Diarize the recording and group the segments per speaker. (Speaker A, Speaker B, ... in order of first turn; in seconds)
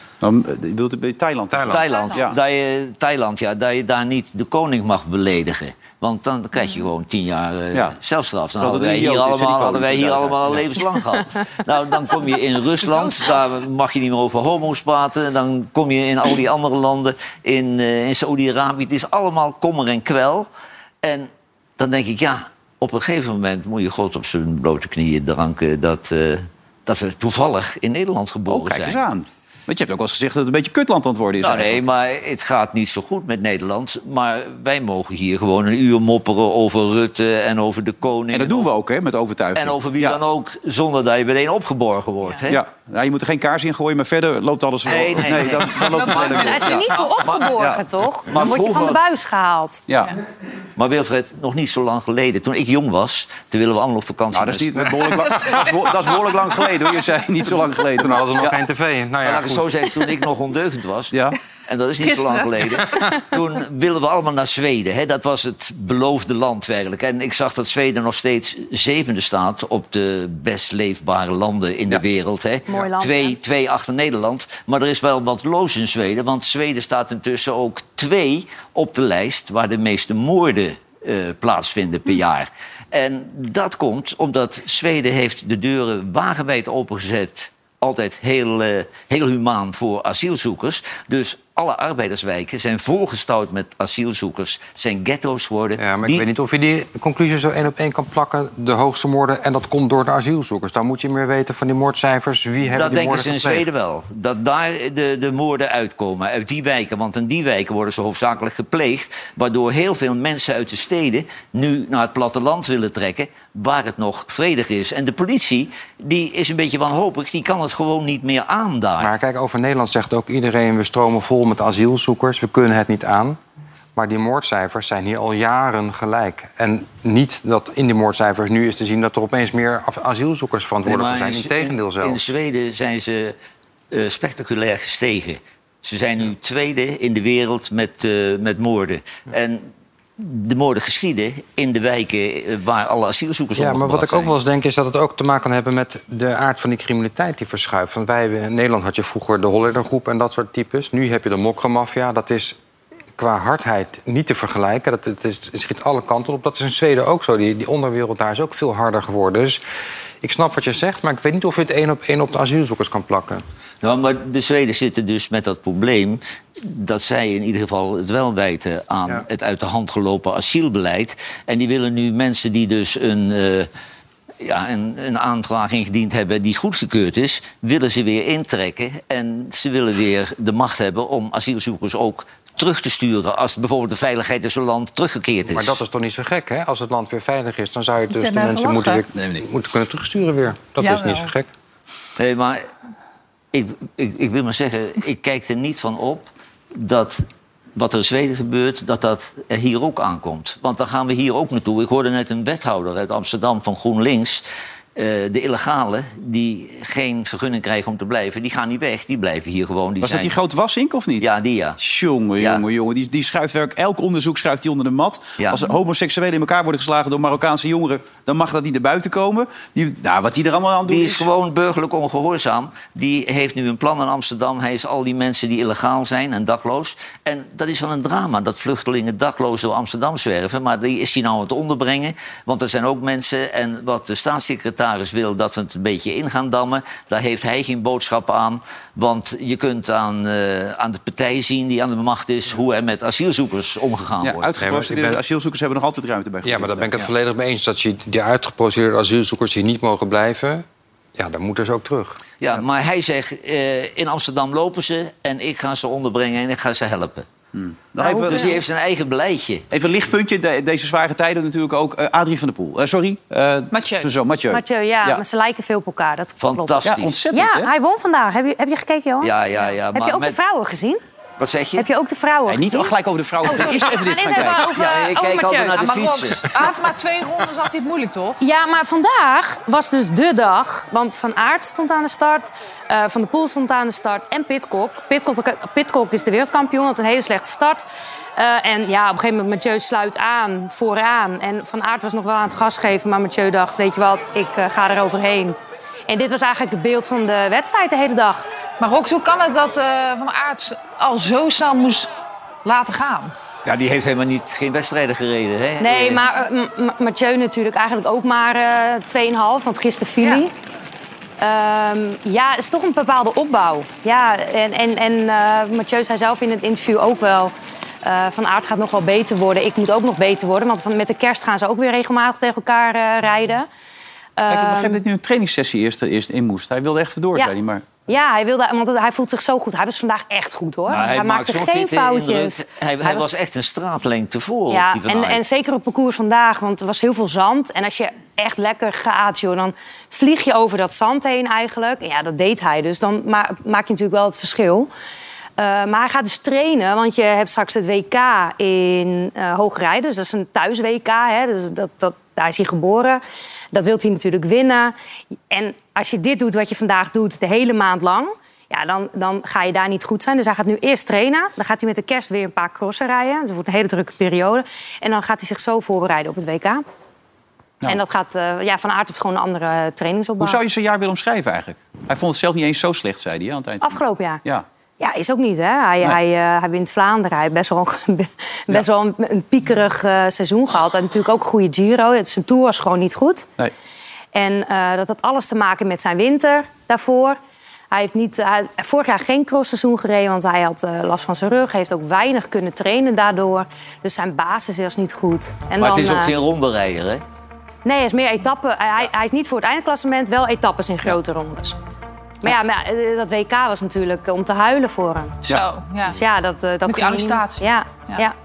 Speaker A: 0.2-2.4, 7.7-8.0, 8.6-10.7, 28.5-31.8, 38.3-40.2, 42.5-47.0, 47.6-47.8, 49.9-50.1, 54.3-58.6, 61.1-61.4, 189.1-189.5, 210.0-221.3, 244.2-247.1, 257.5-258.6, 259.7-265.2, 266.8-267.7, 272.4-274.8, 324.5-327.9, 370.4-374.6
Speaker B: 1.5-1.8, 58.0-59.8, 95.8-103.7, 119.0-123.4, 123.9-132.2, 143.6-152.6, 153.2-159.6, 160.2-163.4, 185.5-191.5, 244.6-245.2, 246.4-252.2
Speaker C: 1.7-20.5, 21.0-29.0, 31.4-38.7, 39.5-42.6, 44.9-47.5, 48.3-49.0, 50.8-55.0, 59.2-96.2, 102.7-119.1, 130.8-133.3, 133.9-144.3, 163.8-173.7, 174.4-185.8, 192.2-192.7, 193.5-204.4, 204.9-210.3, 211.2-211.8, 215.4-215.6, 220.9-244.5, 252.4-257.3, 258.2-259.7, 266.4-267.2, 269.2-270.4, 271.4-271.9, 274.7-276.7, 303.6-306.2, 330.9-335.4, 395.8-397.2
Speaker D: 1.9-2.2, 45.9-47.6, 55.4-55.7, 62.1-62.4, 188.1-189.1, 190.8-191.3, 263.7-264.1, 275.7-278.4, 298.8-302.1, 302.6-303.3, 405.5-406.2, 406.9-408.2
Speaker E: 46.4-49.8, 72.7-73.3, 258.0-258.6, 264.5-269.3, 269.9-271.0, 271.8-276.7, 278.4-287.8, 288.4-298.5, 305.8-310.5, 311.4-323.7, 324.4-325.0, 328.1-333.2, 334.7-344.9, 345.6-354.9, 355.5-366.8, 367.8-370.6, 373.8-374.4, 375.0-383.5, 384.3-387.4, 387.9-396.3, 397.8-401.8, 402.4-405.4, 406.1-408.3